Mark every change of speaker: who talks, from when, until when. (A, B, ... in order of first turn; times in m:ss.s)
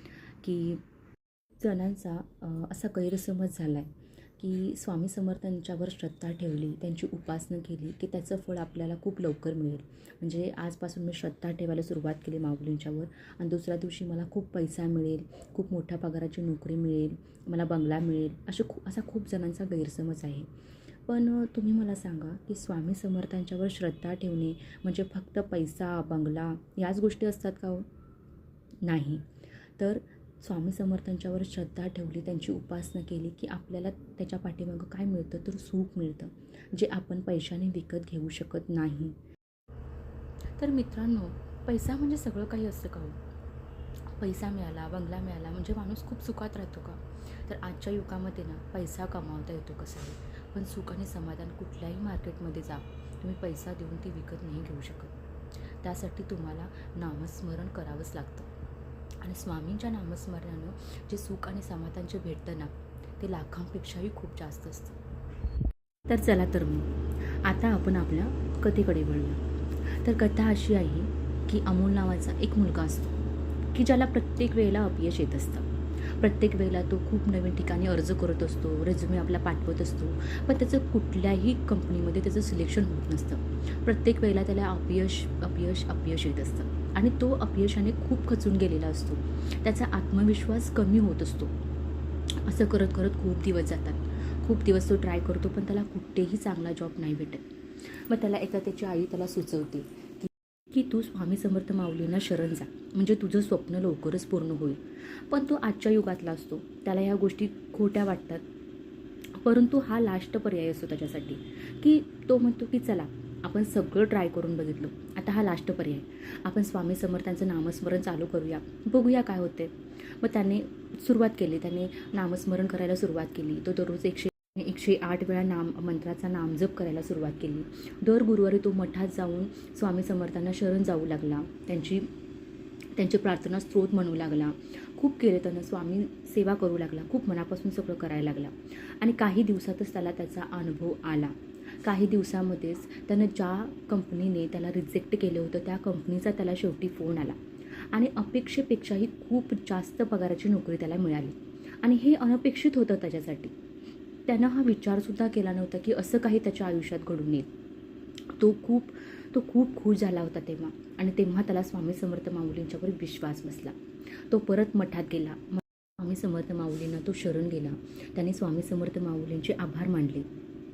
0:00.4-0:00.8 A
0:01.6-0:20.5 A
0:21.1-0:27.9 A
0:28.8-0:29.2 A
0:29.8-0:39.2 A
0:40.6-0:43.2 A
0:44.1-0:55.1 A
0:55.8-0:58.5 A
0:59.2-1:05.0 A
1:06.1-1:13.2 A
1:13.7-1:31.5 A
1:32.4-1:48.4 A
1:49.3-2:12.1 A
2:13.0-2:27.4 A
2:27.9-2:33.5 A
2:34.3-2:37.5 A
2:38.3-2:50.3 A